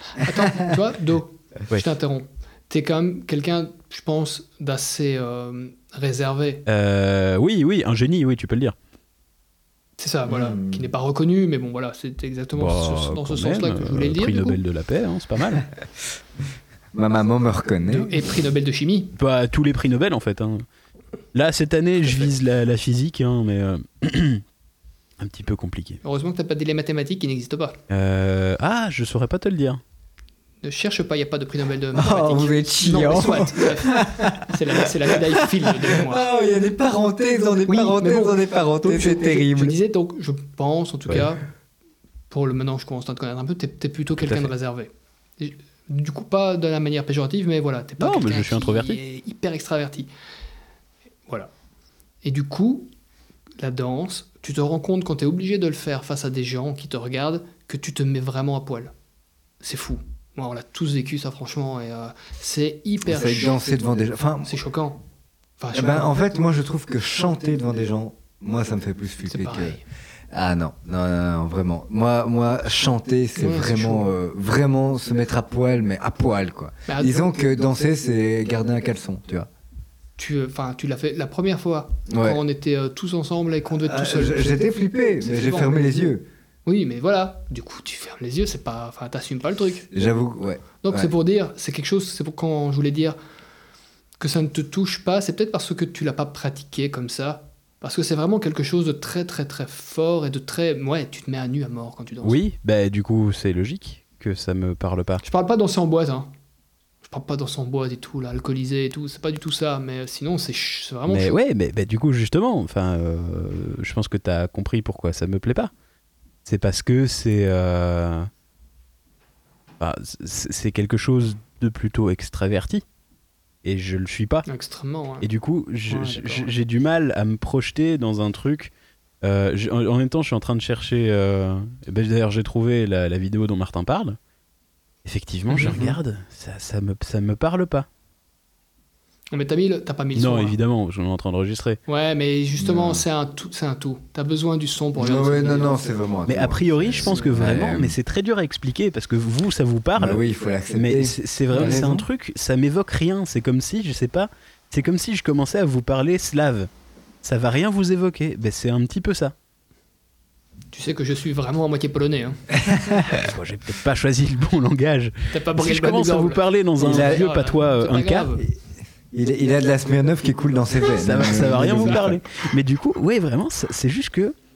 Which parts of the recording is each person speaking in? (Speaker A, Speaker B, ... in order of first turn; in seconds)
Speaker A: 0.2-6.7, 10.0-14.6, 17.9-19.1, 26.0-27.8, 30.6-36.3, 37.7-41.4, 42.3-50.1, 52.2-52.9, 53.6-58.9, 59.6-63.6, 64.5-65.0, 65.6-66.1, 69.3-69.8, 73.4-74.1, 76.9-77.2, 80.2-84.6, 85.2-85.8, 86.7-89.9, 90.8-93.2, 94.2-102.4, 105.2-106.3, 107.1-111.4, 124.5-125.3, 125.9-126.5, 139.3-140.6, 141.9-145.8, 147.1-147.4, 151.5-151.8, 160.7-162.4, 165.3-168.5, 171.3-172.1
Speaker B: 6.7-8.8, 12.6-15.7, 19.2-20.6, 21.3-24.4, 25.2-26.0, 27.9-29.8, 44.2-44.5, 48.0-49.0, 102.2-105.2, 111.1-115.7, 116.5-118.3, 119.8-122.8, 123.6-124.5, 125.2-134.2, 135.1-137.9, 140.2-141.8, 146.3-150.2, 150.8-156.7, 157.2-159.3, 163.0-168.3, 171.0-174.3
Speaker C: 10.3-10.9, 16.9-18.2, 31.9-39.8, 63.0-64.5, 65.7-79.5, 82.1-82.4, 83.8-86.3, 89.9-91.1, 135.6-136.0, 142.6-143.0, 145.0-147.9, 150.0-152.1, 162.5-163.0, 166.8-167.2, 168.4-172.2